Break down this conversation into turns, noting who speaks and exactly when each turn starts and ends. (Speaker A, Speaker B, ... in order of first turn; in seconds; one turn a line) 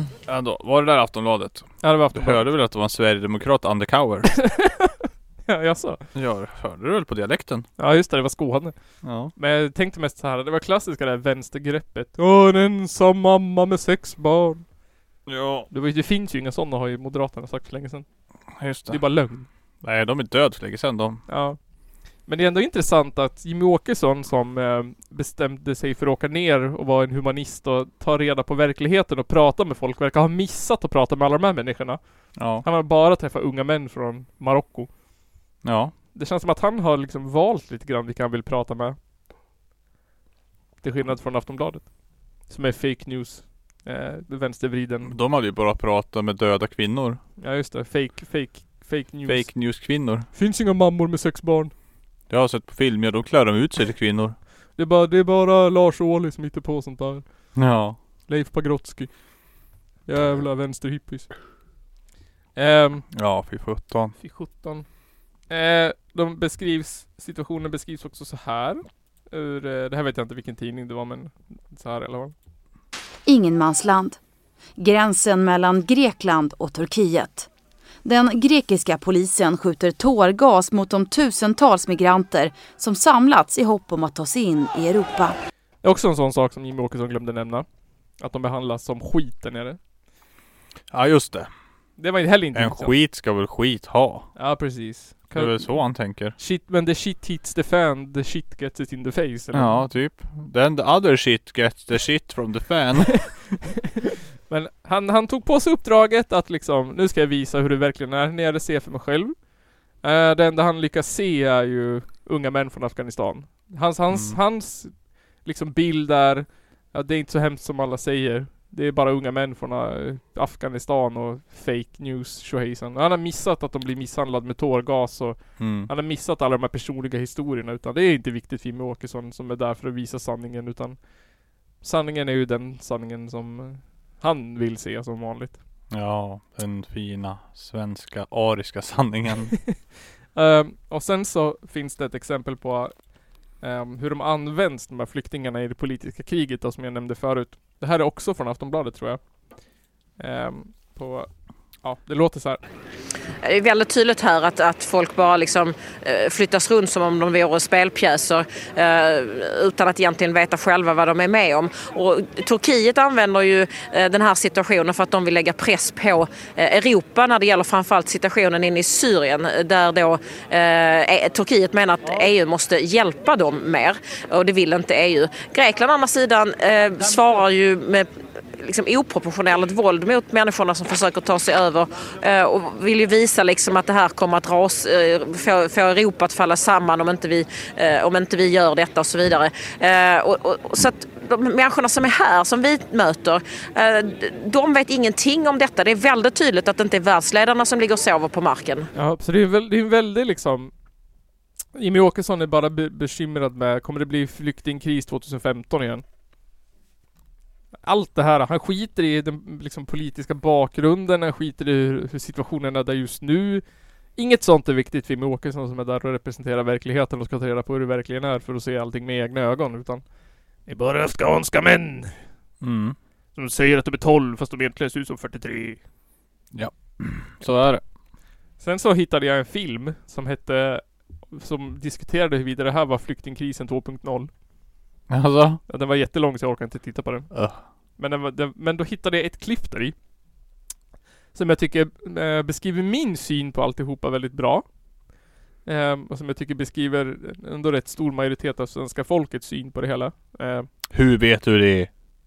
Speaker A: 0.2-4.3
Speaker B: 1.8-2.5
Speaker B: 4.4-6.0
Speaker A: 6.1-7.7
Speaker B: 7.8-8.7
Speaker A: 9.0-9.3
Speaker B: 9.3-14.6
Speaker A: 15.2-15.7
Speaker B: 15.7-18.0
Speaker A: 18.5-19.0
Speaker B: 18.9-19.5
Speaker A: 19.8-21.2
Speaker B: 21.3-21.6
Speaker B: 22.3-32.0
Speaker A: 32.4-32.6
Speaker B: 32.6-34.9
Speaker A: 35.6-35.9
Speaker B: 36.1-39.0
Speaker B: 40.8-41.9
Speaker B: 42.5-45.1
Speaker A: 45.0-47.2
Speaker B: 47.4-49.6
Speaker A: 49.2-50.3
Speaker B: 50.3-51.7
Speaker A: 52.3-54.4
Speaker B: 54.8-57.2
Speaker A: 57.5-58.0
Speaker B: 58.3-59.1
Speaker B: 60.0-61.3
Speaker B: 62.5-63.0
Speaker A: 63.1-64.1
Speaker B: 64.2-64.8
Speaker B: 65.5-72.3
Speaker C: 73.2-74.2
Speaker C: 74.8-77.5
Speaker C: 78.0-85.3
Speaker B: 85.8-87.7
Speaker B: 88.2-89.8
Speaker A: 90.9-91.5
Speaker B: 92.0-92.9
Speaker A: 92.5-94.3
Speaker B: 94.3-95.8
Speaker A: 95.3-96.3
Speaker B: 96.3-99.9
Speaker A: 99.5-103.4
Speaker B: 104.5-109.4
Speaker B: 110.0-131.0
Speaker A: 114.1-114.4
Speaker A: 125.6-125.9
Speaker B: 131.8-135.6
Speaker A: 135.9-139.6
Speaker B: 140.3-142.9
Speaker B: 143.6-149.2
Speaker B: 150.2-151.3
Speaker B: 151.8-152.6
Speaker D: 153.4-198.9
Speaker B: 198.9-200.7
Speaker B: 201.7-206.0
Speaker B: 207.8-213.6
Speaker B: 214.2-220.0
Speaker B: 220.7-222.2
Speaker A: 222.6-222.9
Speaker B: 223.3-225.8
Speaker A: 226.5-227.8
Speaker B: 228.6-234.3
Speaker A: 235.1-235.6
Speaker B: 235.7-237.3
Speaker A: 237.3-237.6
Speaker B: 238.0-239.9
Speaker B: 241.3-244.7
Speaker B: 245.6-250.7
Speaker A: 250.9-251.9